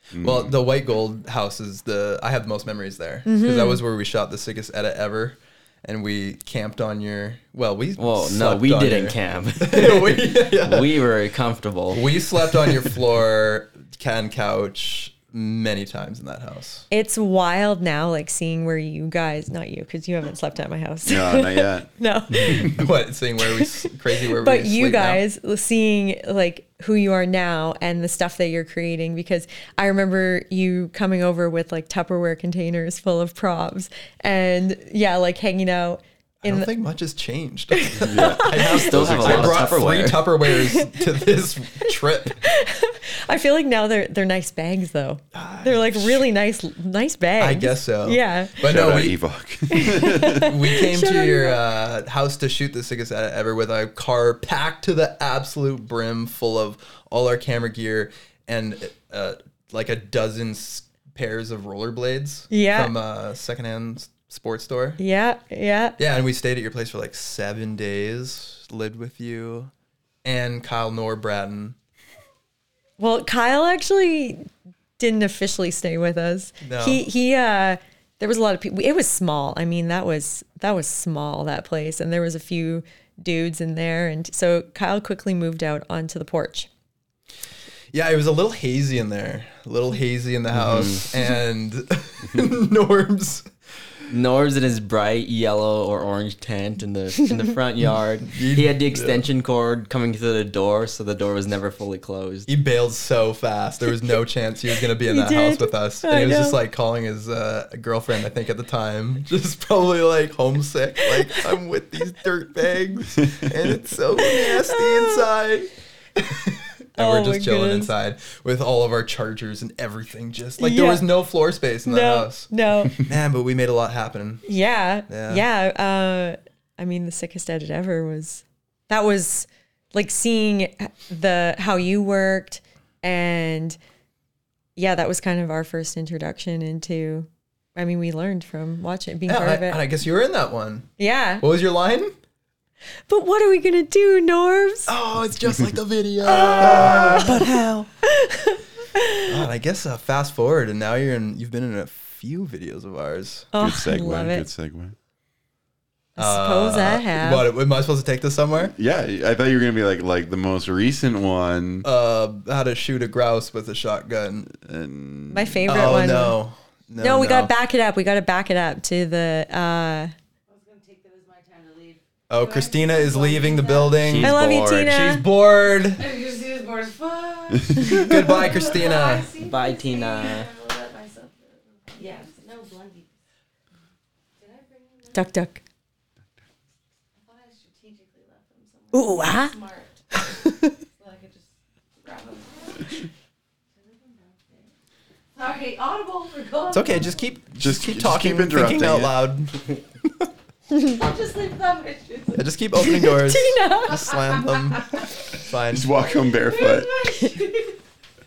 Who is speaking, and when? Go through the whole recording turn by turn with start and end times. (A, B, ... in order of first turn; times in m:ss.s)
0:00.2-0:00.6 A
0:00.2-0:11.0 B
0:03.2-0:03.8 C
0:08.0-0:12.9 D
0:11.9-0:16.9 B
0:16.9-0:22.7 C
0:21.0-0:22.9 A
0:22.4-0:25.2 B
0:24.3-0:36.7 C
0:36.4-0:42.4 B
0:37.7-0:38.9 C
0:38.0-0:39.8 A
0:38.6-0:40.3 D
0:40.5-0:41.2 C
0:41.8-0:48.6 C
0:45.3-0:46.2 B
0:47.4-0:49.2 B
0:48.6-0:50.6 A
0:49.7-0:51.6 C
0:50.3-1:05.0 B
1:02.5-1:02.9 C
1:05.0-1:06.0 C
1:06.0-1:09.7 B
1:10.2-1:11.8 B
1:13.0-1:14.5 C
1:15.0-1:26.7 C
1:16.6-1:17.0 B
1:27.9-1:33.5 B
1:30.5-1:31.0 D
1:34.1-1:42.5 D
1:38.3-1:39.2 B
1:42.5-2:04.4 B
1:45.1-1:46.6 C
1:54.2-1:55.3 C
1:57.0-1:57.9 C
2:00.6-2:01.1 C
2:01.9-2:03.0 C
2:04.4-2:13.8 C
2:05.1-2:05.4 B
2:14.8-2:19.8 C
2:19.3-2:22.1 B
2:21.0-2:21.4 C
2:23.1-2:24.9 C
2:24.9-2:27.9 B
2:26.6-2:29.4 C
2:26.6-2:27.4 A
2:29.3-2:33.5 B
2:33.5-2:34.5 C
2:33.6-2:35.0 A
2:36.2-2:37.5 C
2:36.2-2:38.7 B
2:38.6-2:41.9 A
2:41.8-2:44.5 B
2:44.5-2:45.9 A
2:45.3-2:46.4 C
2:45.7-2:47.5 B
2:47.0-2:50.1 C
2:50.5-2:54.2 E
2:52.3-2:56.0 B
2:54.0-2:55.0 D
2:54.2-2:55.3 C
2:55.8-3:03.1 E
2:57.9-2:59.3 B
2:59.4-3:00.5 D
3:04.4-3:05.3 E
3:05.1-3:05.6 C
3:07.2-3:13.1 E
3:08.9-3:09.6 C
3:13.8-3:14.7 E
3:15.4-3:17.3 E
3:16.7-3:19.6 B
3:17.6-3:19.3 A
3:20.9-3:22.5 E
3:22.4-3:25.9 B
3:22.8-3:24.1 C
3:23.9-3:25.1 E
3:25.7-3:27.1 A
3:26.2-3:27.8 E